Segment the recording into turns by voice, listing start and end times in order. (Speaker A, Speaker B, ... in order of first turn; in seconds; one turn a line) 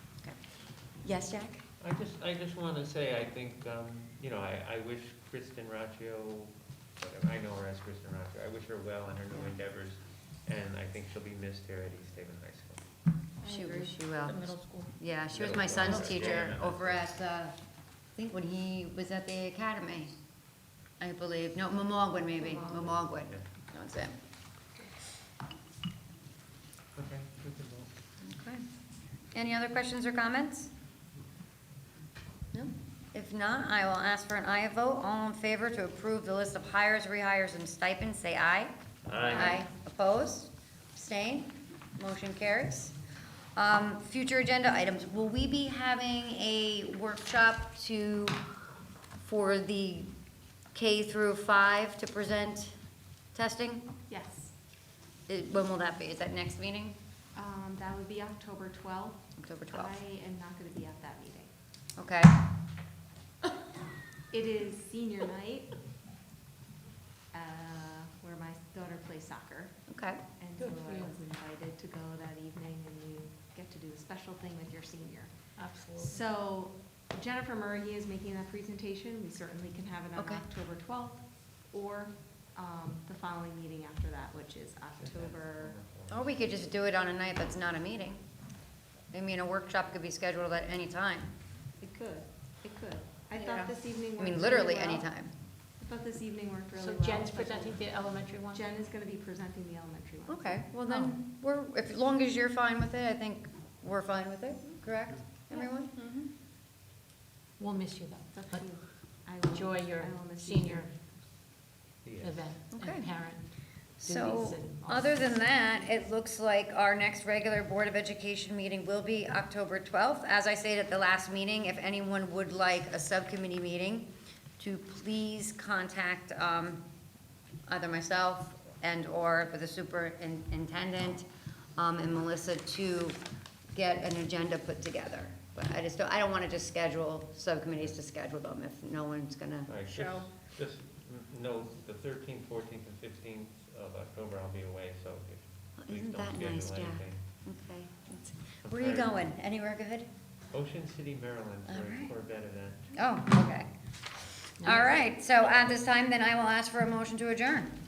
Speaker A: 1.0-1.6
Speaker B: 1.8-12.8
Speaker A: 13.4-17.5
Speaker C: 13.5-14.9
Speaker B: 15.3-17.1
Speaker A: 18.1-20.1
Speaker A: 21.0-24.2
Speaker B: 26.9-27.9
Speaker A: 28.2-28.6
Speaker A: 29.3-30.7
Speaker A: 32.5-42.9
Speaker B: 39.0-39.6
Speaker A: 43.5-48.4
Speaker A: 49.2-50.1
Speaker A: 50.7-52.8
Speaker A: 53.3-53.8
Speaker D: 54.1-54.5
Speaker A: 55.3-57.0
Speaker D: 57.3-61.5
Speaker A: 59.4-60.0
Speaker A: 62.0-62.4
Speaker D: 64.3-65.7
Speaker D: 67.3-69.8
Speaker A: 69.9-70.2
Speaker D: 70.4-85.8
Speaker C: 70.6-71.2
Speaker C: 75.5-76.2
Speaker A: 80.2-80.5
Speaker B: 85.0-86.4
Speaker A: 86.1-88.2
Speaker A: 89.1-91.3
Speaker D: 91.8-95.1
Speaker A: 94.1-95.3
Speaker D: 95.8-97.8
Speaker C: 96.7-98.6
Speaker D: 98.5-100.6
Speaker A: 100.2-106.1
Speaker C: 100.9-101.2
Speaker C: 107.6-110.9
Speaker D: 108.3-111.2
Speaker B: 112.0-112.5
Speaker C: 112.2-115.3
Speaker A: 112.7-126.8
Speaker A: 127.7-133.2
Speaker A: 133.7-139.7
Speaker B: 139.7-147.2
Speaker A: 145.8-150.1
Speaker B: 148.6-149.2
Speaker B: 150.5-152.9
Speaker A: 151.7-152.1
Speaker A: 152.9-157.7
Speaker C: 154.6-155.0